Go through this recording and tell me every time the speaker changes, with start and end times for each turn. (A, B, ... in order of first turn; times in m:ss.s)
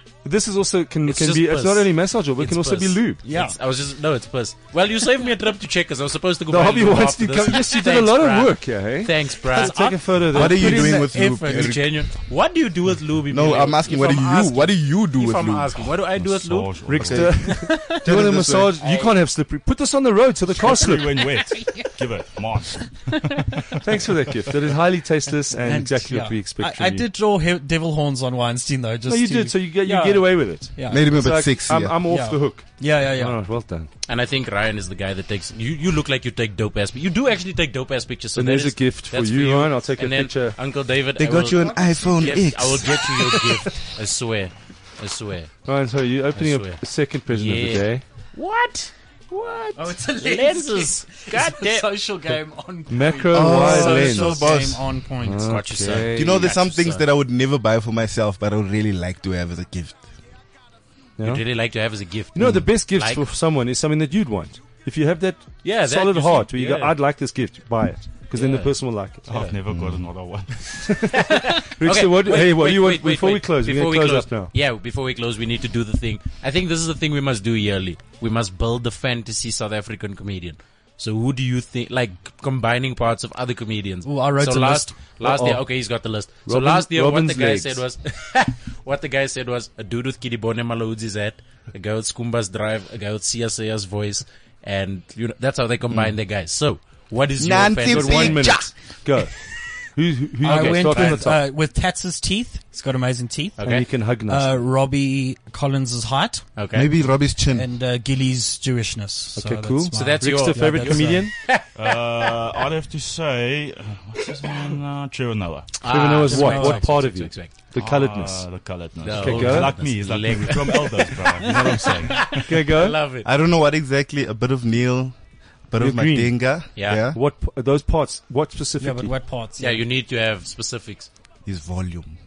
0:00.2-0:03.2 A
0:01.0-0:17.2 B
0:03.2-0:03.6 C
0:06.5-0:11.1 A
0:10.3-0:12.1 D
0:13.3-0:15.9 D
0:16.1-0:17.4 E
0:16.9-0:21.4 A
0:17.0-0:18.7 D
0:17.5-0:18.0 C
0:18.8-0:19.1 B
0:20.5-0:23.8 E
0:20.6-0:22.0 C
0:23.8-0:27.1 A
0:25.6-0:31.1 C
0:29.1-0:33.9 A
0:30.8-0:32.0 D
0:32.0-0:33.4 C
0:34.0-0:45.7 B
0:38.3-0:40.6 A
0:41.2-0:43.7 D
0:45.6-0:48.0 A
0:46.3-0:51.9 B
0:49.7-0:56.1 C
0:52.9-0:54.6 A
0:53.3-0:55.1 D
0:55.2-0:56.5 A
0:55.4-0:57.1 B
0:56.1-1:00.0 D
1:01.2-1:01.7 A
1:01.2-1:03.3 B
1:02.3-1:14.5 A
1:05.6-1:06.9 B
1:08.3-1:09.5 B
1:09.3-1:11.0 E
1:11.1-1:38.7 B
1:24.0-1:25.0 C
1:25.2-1:27.8 A
1:37.4-1:38.7 D
1:37.8-1:41.4 A
1:40.4-1:46.6 C
1:40.4-1:41.4 B
1:43.6-1:43.9 B
1:43.6-1:44.5 A
1:46.6-1:46.9 B
1:46.7-1:47.7 D
1:47.5-1:51.3 C
1:49.4-1:51.3 A
1:49.9-1:52.3 B
1:51.7-1:55.8 E
1:55.8-1:57.5 B
1:55.8-1:59.9 A
1:56.3-1:57.1 C
1:57.7-2:02.5 E
1:59.0-2:03.2 B
2:01.6-2:03.0 A
2:03.2-2:07.2 D
2:05.8-2:09.2 A
2:06.7-2:07.0 B
2:08.8-2:09.8 C
2:09.6-2:11.1 B
2:11.4-2:12.1 D